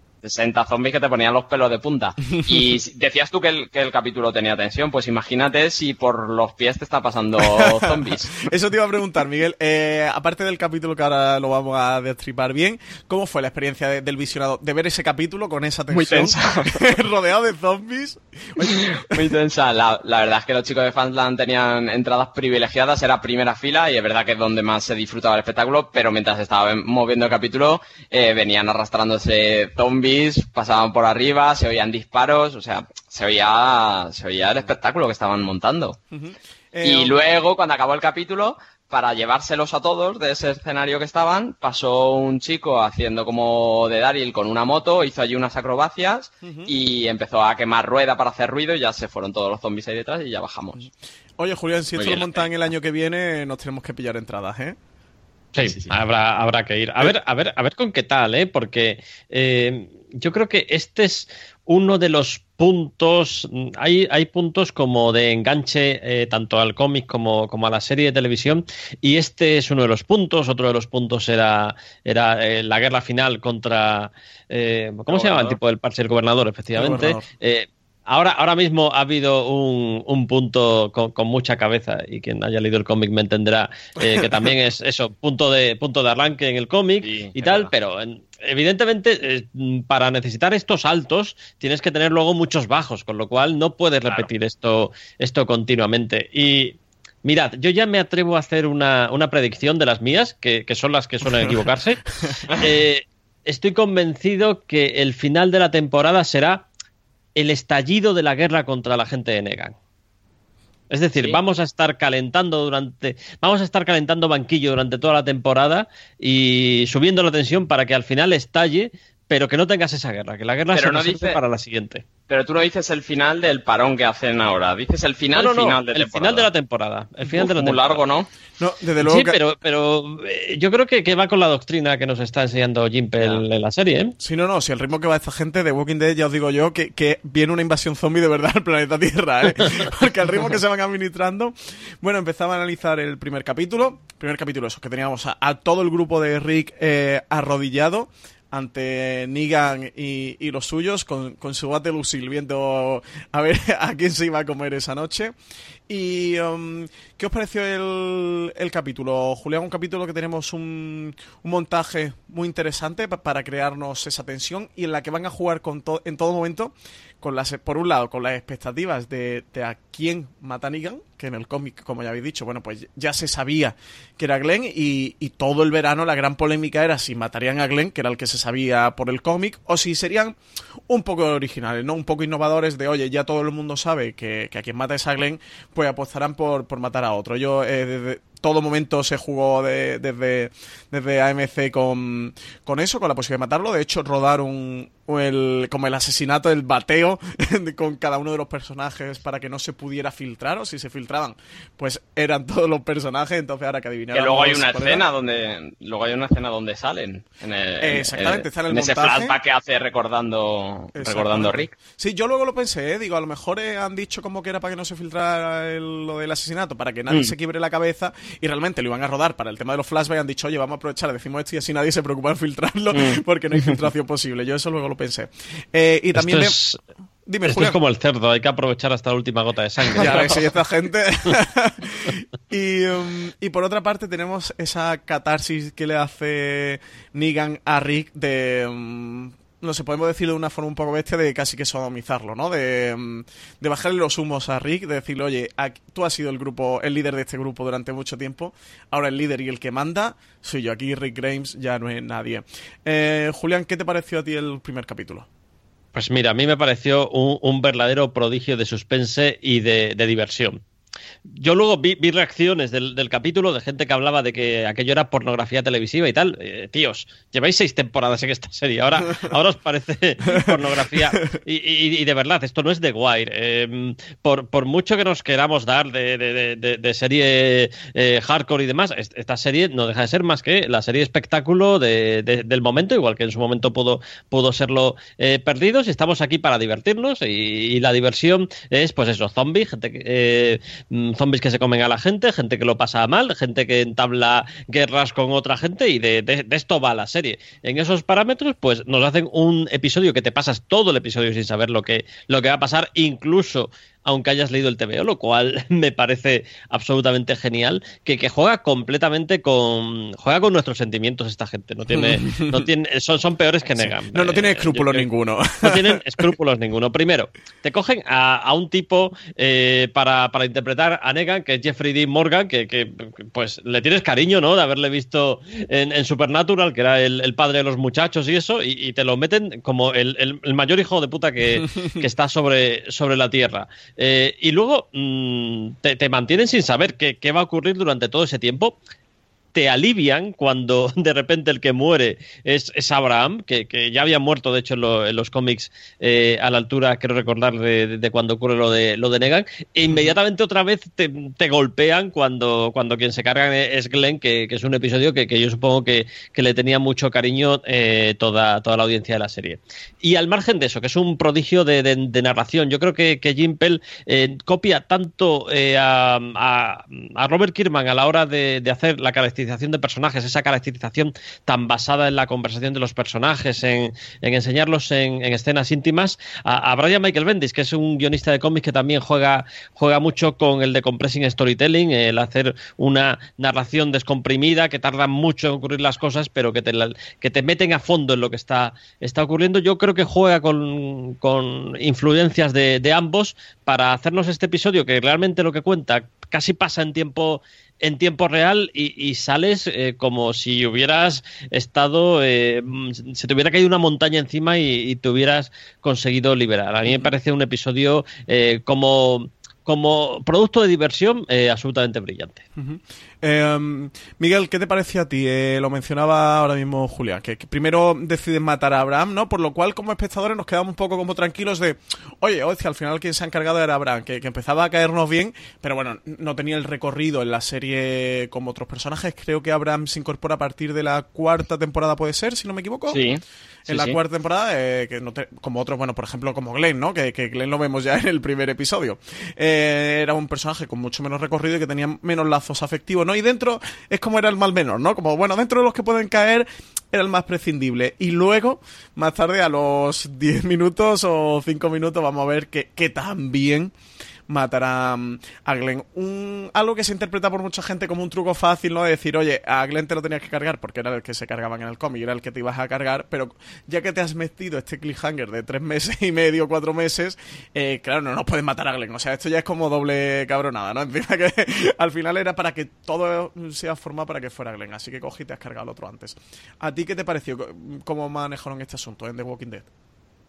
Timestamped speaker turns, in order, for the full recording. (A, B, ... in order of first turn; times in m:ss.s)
0:00.2-0:08.5 A
0:02.4-0:02.7 B
0:07.4-0:19.2 B
0:15.9-0:16.9 A
0:18.6-0:36.0 A
0:36.1-0:37.2 B
0:36.8-0:50.9 A
0:46.4-0:46.7 B
0:50.8-0:54.8 B
0:52.0-0:52.5 A
0:55.5-1:46.7 C
0:55.6-0:55.9 A
1:15.1-1:15.6 A
1:16.8-1:17.3 B
1:24.0-1:24.5 B
1:27.0-1:27.7 A
1:41.2-1:41.6 B
1:47.4-1:49.8 C
1:50.9-2:02.0 C
2:00.7-2:01.4 A
2:02.3-2:06.5 A
2:05.4-2:08.0 C
2:07.3-2:08.3 A
2:08.6-2:09.4 B
2:09.0-2:14.1 C
2:14.2-2:35.4 B
2:35.9-3:00.4 B
3:00.9-3:25.0 B
3:24.1-3:31.7 A
3:27.8-3:29.4 B
3:31.0-3:46.6 B
3:42.9-3:43.8 A
3:46.2-3:46.8 C
3:47.2-3:47.8 B
3:47.4-3:50.4 C
3:50.0-4:15.3 B
4:15.9-4:20.6 C
4:21.4-5:15.1 C
4:30.3-4:30.6 B
5:11.9-5:12.7 B
5:13.8-5:16.4 B
5:15.6-5:38.8 C
5:39.5-6:52.4 C
6:52.6-7:13.0 B
7:12.9-7:14.0 A
7:13.6-7:33.7 B
7:34.3-7:59.7 B